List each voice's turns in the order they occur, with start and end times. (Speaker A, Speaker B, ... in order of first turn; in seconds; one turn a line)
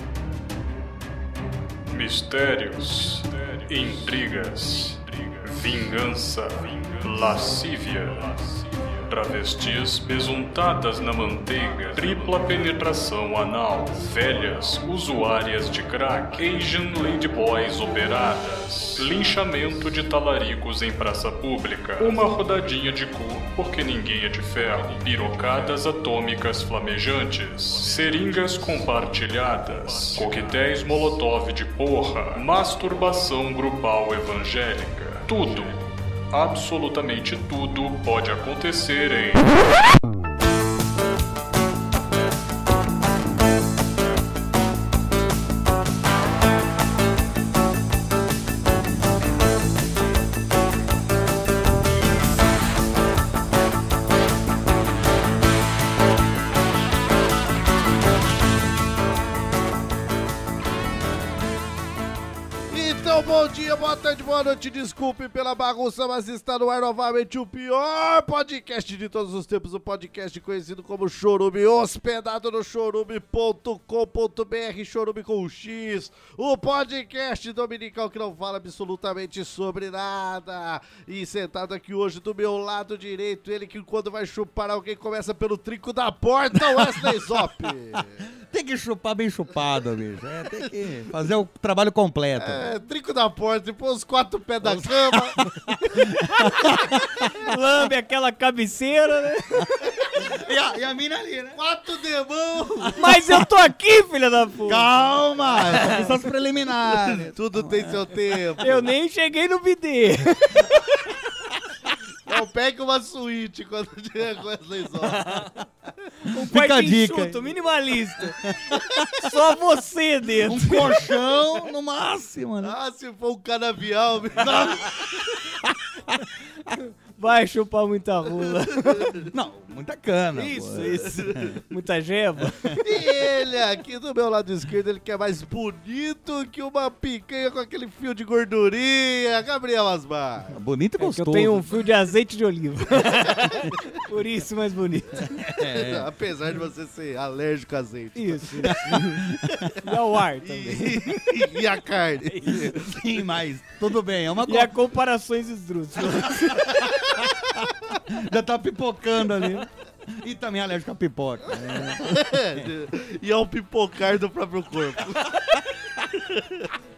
Speaker A: 1.9-39.5
Speaker B: 62.7-88.3
Speaker C: 86.7-87.7
Speaker C: 88.2-92.8
Speaker B: 92.4-96.8
Speaker C: 94.6-97.5
Speaker D: 97.4-99.8
Speaker C: 100.2-101.6
Speaker B: 101.5-103.0
Speaker C: 102.8-103.5
Speaker D: 103.0-104.9
Speaker C: 104.7-108.4
Speaker B: 105.6-106.1
Speaker D: 105.7-106.0
Speaker B: 106.9-108.9
Speaker D: 108.6-111.2
Speaker B: 112.3-115.4
Speaker D: 116.2-118.4
Speaker C: 116.3-117.5
Speaker C: 118.4-119.1
Speaker D: 119.1-121.1
Speaker C: 120.4-122.8
Speaker B: 122.6-125.4
Speaker C: 124.4-126.8
Speaker D: 126.8-129.2
Speaker C: 129.3-131.6
Speaker D: 130.3-132.8
Speaker B: 132.8-140.6
Speaker C: 140.5-141.7
Speaker D: 141.0-145.3
Speaker B: 143.2-143.7
Speaker C: 145.2-146.1
Speaker B: 145.6-148.7
Speaker D: 148.2-149.2
Speaker C: 148.6-149.8
Speaker D: 149.8-151.3
Speaker B: 150.4-153.0
Speaker D: 152.3-152.7
Speaker C: 152.7-154.7
Speaker D: 154.4-156.9
Speaker C: 158.1-162.7
Speaker B: 162.0-166.7